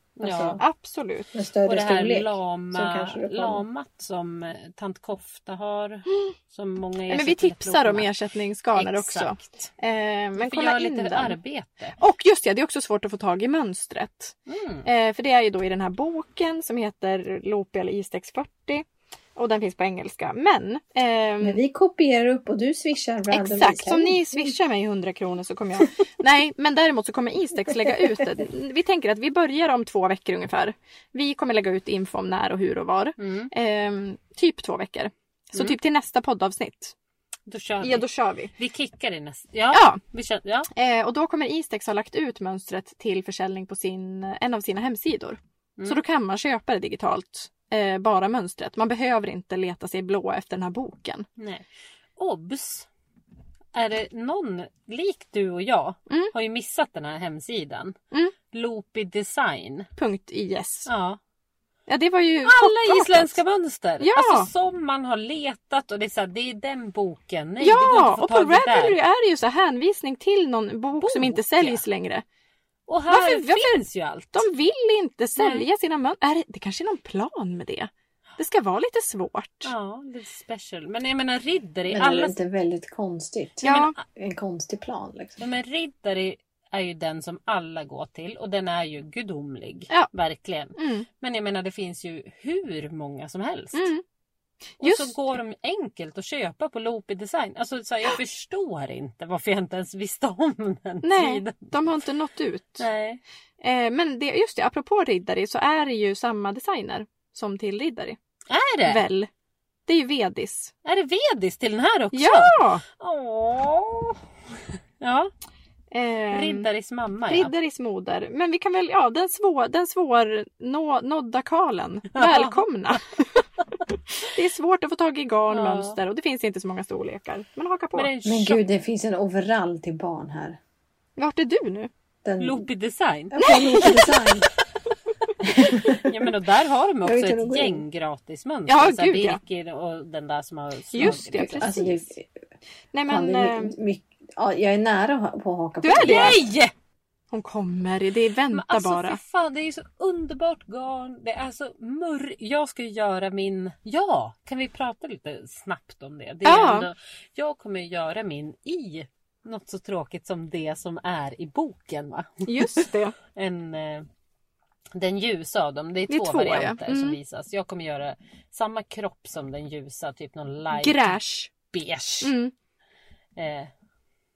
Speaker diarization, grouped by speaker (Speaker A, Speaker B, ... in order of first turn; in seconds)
Speaker A: 0.2-0.6, 1.6-8.1, 8.7-9.7, 10.3-11.9, 14.5-14.9, 33.2-33.5, 37.5-40.7, 51.4-52.9, 53.7-58.0, 58.5-59.9, 60.9-61.2, 62.4-69.0, 71.0-71.8, 72.9-74.5, 75.4-75.7, 79.6-82.3, 85.4-93.9, 94.8-102.0, 102.8-103.2, 108.5-109.0, 110.8-114.2, 115.0-115.3, 116.3-117.5, 122.1-122.6, 125.5-126.0, 127.9-128.6, 132.4-134.3, 135.4-141.7, 145.9-146.7, 148.5-164.1, 164.9-171.2, 171.7-172.3, 173.3-173.7
Speaker B: 0.2-0.6, 1.3-3.6, 21.4-24.5, 81.9-85.4, 128.2-130.6, 132.2-132.7, 133.3-134.5, 135.4-136.3, 137.0-137.8, 141.4-142.3, 143.1-146.3
Speaker C: 0.6-1.3, 7.1-11.4, 12.0-18.8, 19.4-21.6, 23.3-36.9, 37.8-38.5, 39.7-40.0, 40.7-51.2, 60.0-60.9, 61.9-63.4, 64.0-64.5, 67.6-72.2, 73.1-73.8, 74.3-79.7, 83.6-84.0, 90.8-91.0, 93.7-94.0, 94.8-95.2, 101.0-102.8, 103.6-108.2, 108.8-109.3, 109.9-110.7, 112.1-112.8, 115.9-116.7, 117.3-128.1, 131.2-131.9, 133.4-134.0, 138.7-139.4, 140.9-142.1, 142.9-143.7, 145.8-146.4, 147.3-149.2, 156.4-156.9, 162.4-163.1, 166.1-167.2, 170.7-171.5, 172.2-172.5